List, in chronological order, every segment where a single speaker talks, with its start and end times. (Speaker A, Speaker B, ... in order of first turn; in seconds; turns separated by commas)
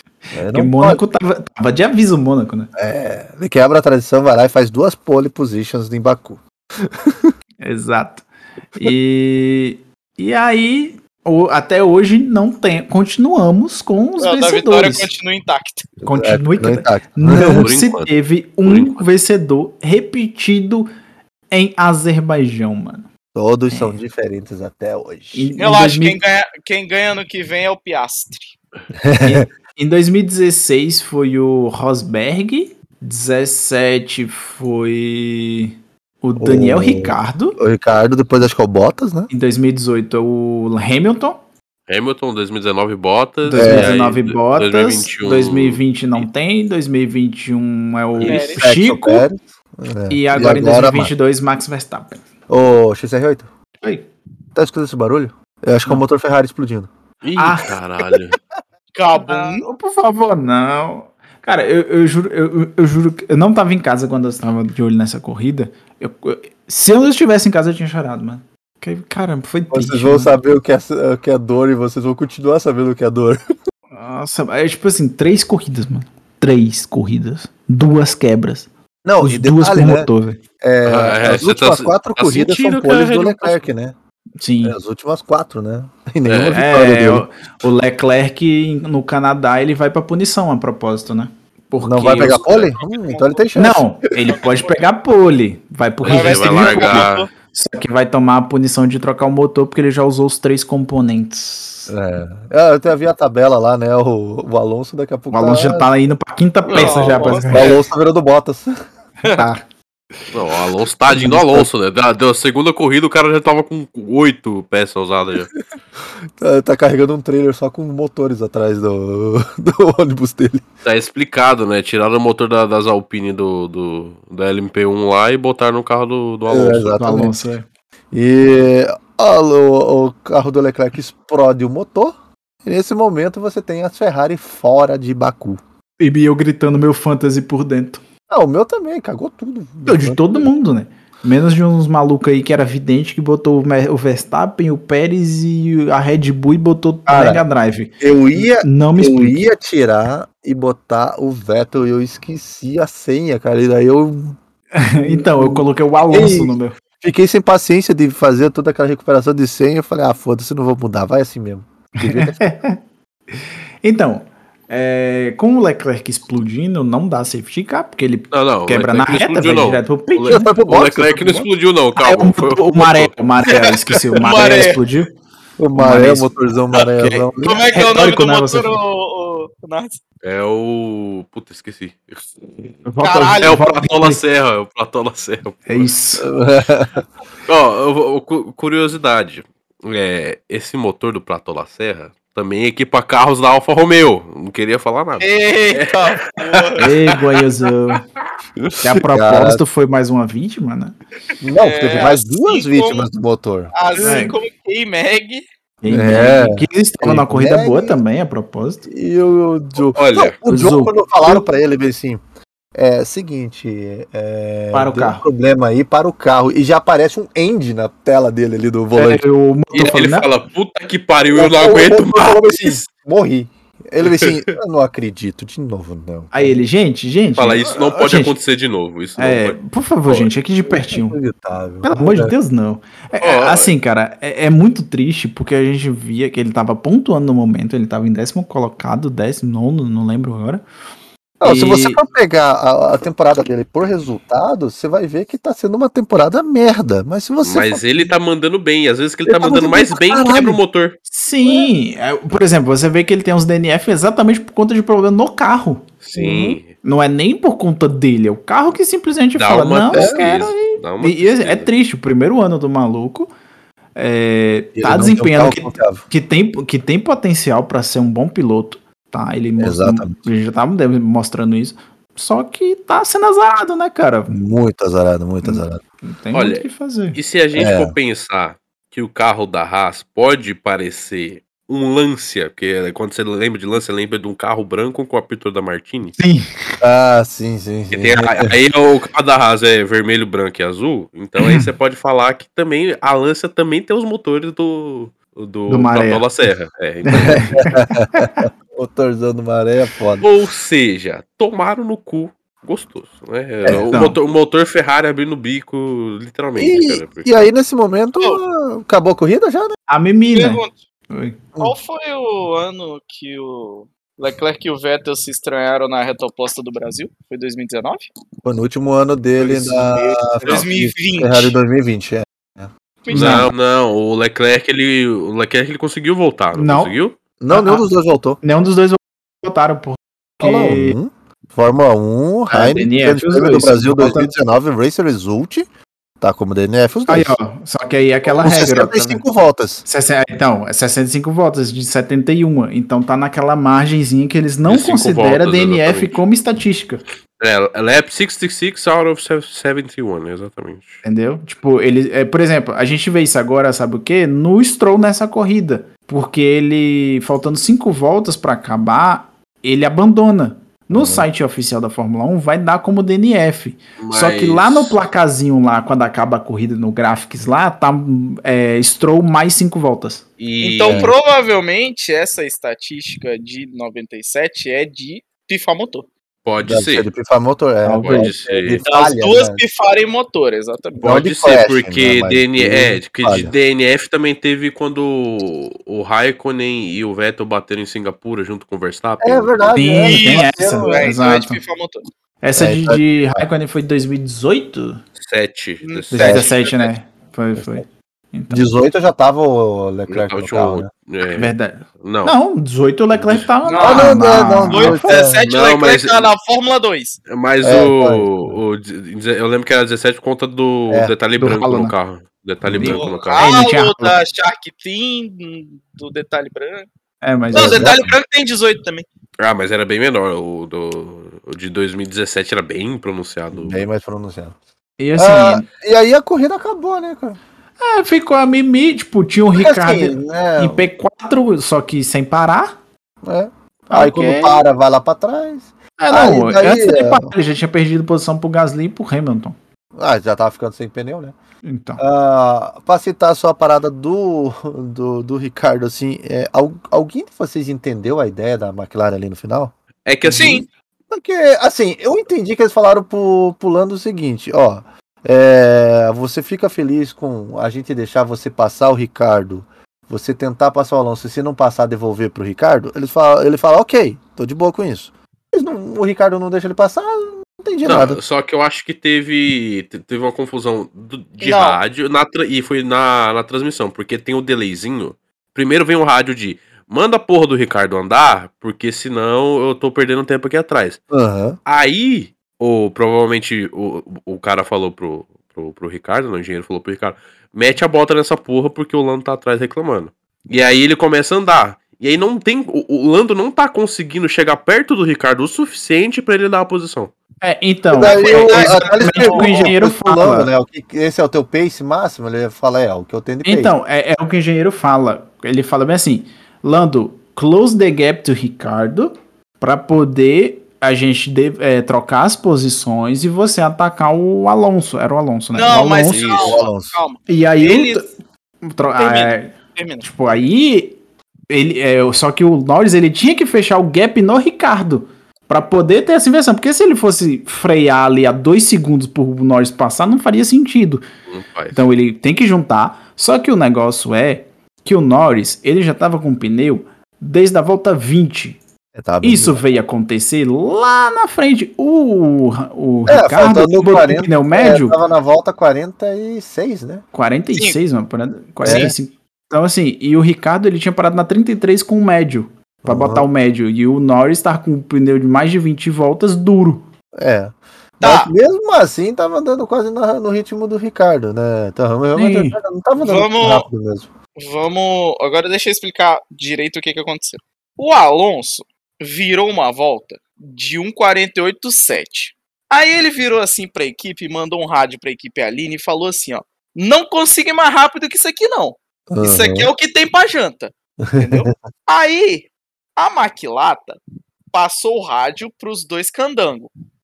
Speaker A: 0.3-1.0, Speaker B: 0.5-2.7, Speaker A: 2.8-7.3, Speaker B: 7.6-15.1, Speaker C: 14.2-15.9, Speaker B: 16.0-20.9, Speaker A: 16.0-17.7, Speaker D: 17.6-19.1, Speaker B: 21.5-23.1, Speaker A: 23.3-25.5, Speaker B: 23.7-24.0, Speaker B: 25.3-26.2, Speaker C: 25.6-28.5, Speaker A: 29.0-29.5, Speaker B: 29.2-37.6, Speaker A: 36.4-39.3, Speaker B: 39.3-41.4, Speaker D: 41.9-46.2, Speaker B: 43.4-49.2, Speaker A: 43.5-44.0, Speaker D: 48.2-48.5, Speaker C: 48.2-48.6, Speaker A: 48.5-51.1, Speaker B: 50.1-52.2, Speaker A: 52.5-53.5, Speaker B: 53.8-54.1, Speaker A: 54.5-56.9, Speaker D: 57.2-58.4, Speaker B: 57.4-57.7, Speaker C: 58.9-59.6, Speaker B: 59.1-70.4, Speaker A: 69.7-73.4, Speaker B: 73.9-78.7, Speaker A: 79.0-80.1, Speaker B: 79.2-80.4, Speaker A: 80.6-83.9, Speaker D: 80.8-83.7, Speaker B: 84.4-84.8, Speaker A: 84.6-87.2, Speaker D: 86.2-86.6, Speaker B: 86.5-92.5, Speaker A: 91.8-93.9, Speaker C: 92.2-93.5, Speaker B: 93.5-101.9, Speaker C: 94.3-94.8, Speaker D: 96.0-97.3, Speaker C: 96.0-97.3, Speaker A: 101.9-105.9, Speaker B: 105.3-107.7, Speaker C: 106.7-107.8, Speaker D: 106.7-107.3, Speaker A: 107.5-108.7, Speaker B: 109.3-109.6, Speaker D: 110.3-115.5, Speaker B: 111.1-111.4, Speaker A: 111.2-111.7, Speaker A: 116.4-120.7, Speaker D: 120.8-126.9, Speaker A: 126.5-127.4, Speaker B: 126.9-127.7, Speaker A: 128.1-135.6, Speaker B: 136.0-138.0, Speaker A: 138.3-140.5, Speaker B: 139.8-149.4, Speaker A: 147.1-147.4, Speaker A: 148.0-154.4, Speaker B: 154.7-156.8, Speaker A: 155.0-162.6, Speaker B: 162.0-162.8, Speaker B: 163.4-170.5, Speaker D: 168.3-173.1, Speaker A: 170.2-171.5, Speaker B: 172.0-175.1, Speaker C: 174.2-174.8, Speaker A: 175.6-177.7, Speaker B: 175.7-178.8, Speaker C: 177.4-180.0, Speaker D: 180.2-182.7, Speaker B: 182.8-184.2, Speaker C: 183.0-183.6, Speaker D: 183.4-185.9, Speaker B: 185.7-186.3, Speaker A: 186.2-187.0, Speaker D: 187.4-196.8, Speaker C: 195.2-196.8, Speaker B: 196.8-198.0, Speaker B: 198.8-200.9, Speaker A: 198.9-199.6, Speaker A: 201.4-203.7, Speaker C: 201.6-203.1, Speaker C: 203.7-205.4, Speaker D: 204.0-204.2, Speaker B: 204.0-204.4, Speaker B: 205.8-208.8, Speaker A: 205.9-208.0, Speaker A: 208.8-212.2, Speaker D: 209.9-210.3, Speaker B: 210.5-211.4, Speaker A: 212.7-219.2, Speaker B: 214.7-215.2, Speaker B: 218.9-220.3, Speaker D: 219.7-222.8, Speaker A: 221.3-226.6, Speaker D: 224.0-224.4, Speaker B: 226.3-228.3, Speaker D: 227.4-230.3, Speaker B: 229.2-231.2, Speaker A: 230.7-232.3, Speaker B: 231.8-240.6, Speaker D: 233.2-233.7, Speaker A: 241.4-247.9, Speaker B: 241.4-242.0, Speaker D: 247.4-251.0, Speaker A: 249.2-250.6, Speaker B: 251.1-263.3, Speaker A: 251.4-251.7, Speaker D: 256.0-256.7, Speaker D: 259.3-261.7, Speaker A: 259.9-260.2, Speaker B: 263.9-274.4, Speaker A: 264.8-266.0, Speaker A: 269.6-270.2, Speaker A: 274.3-275.8, Speaker B: 275.4-277.2, Speaker D: 276.3-286.2, Speaker A: 277.5-277.9, Speaker B: 286.2-286.5, Speaker A: 286.8-288.5, Speaker D: 287.9-297.6, Speaker B: 291.4-291.7, Speaker B: 295.7-296.2, Speaker B: 297.1-298.4, Speaker A: 297.2-300.3, Speaker D: 300.2-307.4, Speaker A: 303.6-303.9, Speaker B: 303.9-304.2, Speaker A: 306.6-309.8, Speaker B: 309.9-311.5, Speaker C: 310.3-310.7, Speaker C: 311.6-318.1, Speaker A: 318.4-322.7, Speaker B: 319.4-320.2, Speaker C: 320.4-321.5, Speaker C: 323.0-323.5, Speaker B: 323.1-323.5, Speaker D: 323.1-327.2, Speaker B: 326.5-326.9, Speaker A: 327.4-328.4, Speaker B: 327.5-327.9, Speaker B: 328.4-330.9, Speaker A: 330.4-335.6, Speaker B: 332.5-334.3, Speaker A: 336.2-337.4, Speaker B: 337.1-339.2, Speaker A: 338.2-339.9, Speaker B: 339.9-347.0, Speaker D: 344.6-346.2, Speaker D: 347.4-351.0, Speaker B: 351.0-370.2, Speaker A: 360.9-361.2, Speaker D: 364.0-365.0, Speaker D: 370.4-371.1, Speaker C: 370.6-376.1, Speaker A: 370.9-371.1, Speaker D: 376.4-377.1, Speaker A: 376.6-379.6, Speaker B: 377.8-378.3, Speaker D: 378.0-378.8, Speaker C: 378.8-381.1, Speaker D: 381.0-389.7, Speaker A: 381.0-383.5, Speaker A: 389.2-391.2, Speaker B: 389.7-391.6, Speaker C: 389.9-392.0, Speaker B: 392.4-395.0, Speaker A: 392.6-393.4, Speaker D: 395.2-396.6, Speaker C: 395.8-396.9, Speaker B: 396.1-398.7, Speaker A: 396.2-396.5, Speaker A: 397.6-397.8, Speaker A: 398.5-400.9, Speaker D: 400.1-402.4, Speaker B: 401.3-405.2, Speaker C: 403.6-407.2, Speaker A: 403.8-405.4, Speaker D: 405.4-406.3, Speaker D: 407.3-413.5, Speaker A: 407.6-408.5, Speaker A: 410.9-411.1, Speaker B: 411.4-411.9, Speaker A: 412.6-412.9, Speaker B: 412.7-414.2, Speaker C: 412.8-416.9, Speaker B: 417.2-418.0, Speaker A: 417.5-418.0, Speaker C: 417.5-419.1, Speaker D: 419.4-423.8, Speaker A: 423.5-424.6, Speaker B: 425.0-425.6, Speaker A: 425.2-427.4, Speaker B: 427.8-432.8, Speaker A: 429.5-430.9, Speaker A: 433.2-437.3, Speaker B: 433.9-434.6, Speaker B: 436.0-439.5, Speaker A: 439.9-441.3, Speaker B: 441.6-442.0, Speaker A: 442.0-449.7, Speaker D: 450.1-450.6, Speaker C: 450.3-450.6, Speaker A: 451.1-468.2, Speaker D: 467.8-481.0, Speaker C: 471.4-471.8, Speaker A: 481.1-481.6, Speaker D: 481.6-497.1, Speaker B: 497.4-500.5, Speaker A: 497.9-503.7, Speaker C: 497.9-499.7, Speaker B: 503.4-516.3, Speaker C: 515.5-518.0, Speaker D: 516.1-516.6, Speaker A: 516.3-517.0, Speaker B: 517.3-518.0, Speaker B: 518.6-521.0, Speaker C: 519.0-520.0, Speaker B: 521.5-531.0, Speaker D: 531.3-531.9, Speaker B: 531.7-538.6, Speaker A: 538.9-539.6, Speaker B: 539.2-545.0, Speaker A: 543.1-547.0, Speaker B: 547.1-556.9, Speaker A: 548.6-548.9, Speaker C: 548.6-548.9, Speaker A: 552.8-553.3, Speaker A: 557.1-564.1, Speaker C: 558.0-558.3, Speaker B: 562.1-562.6, Speaker C: 563.0-563.7, Speaker C: 564.4-584.0, Speaker A: 579.1-579.7, Speaker A: 581.0-581.5, Speaker C: 584.5-586.7